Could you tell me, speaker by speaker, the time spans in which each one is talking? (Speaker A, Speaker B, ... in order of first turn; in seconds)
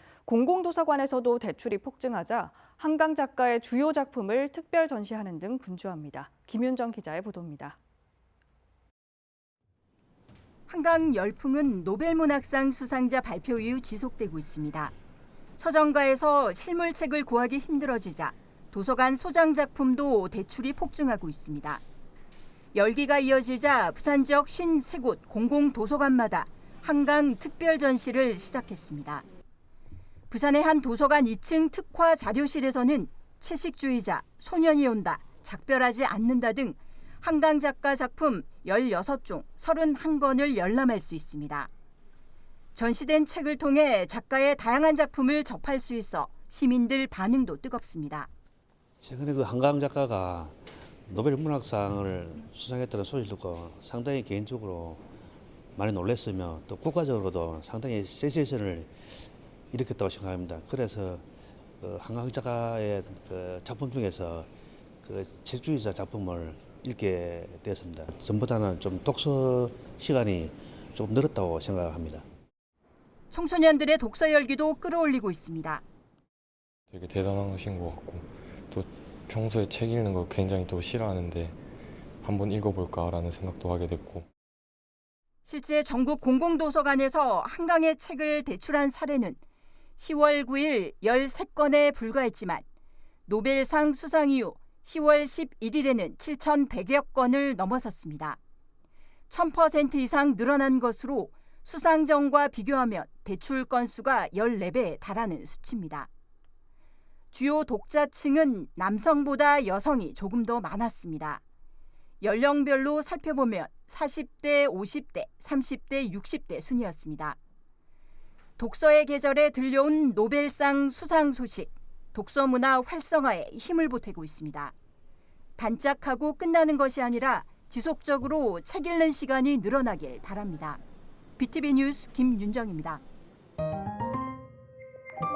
Speaker A: 0.2-7.8
Speaker B: 10.7-14.9, 15.6-21.8, 22.7-29.2, 30.3-41.7, 42.7-48.3, 73.3-75.8, 85.5-89.4, 90.0-92.6, 93.3-98.4, 99.3-106.1, 107.3-111.4, 112.2-117.4, 118.6-124.7, 125.6-130.8, 131.4-133.0
Speaker C: 49.0-50.5, 51.1-55.0, 55.7-58.9, 59.7-61.2, 61.8-64.5, 65.0-72.2
Speaker D: 76.9-81.6, 82.2-84.3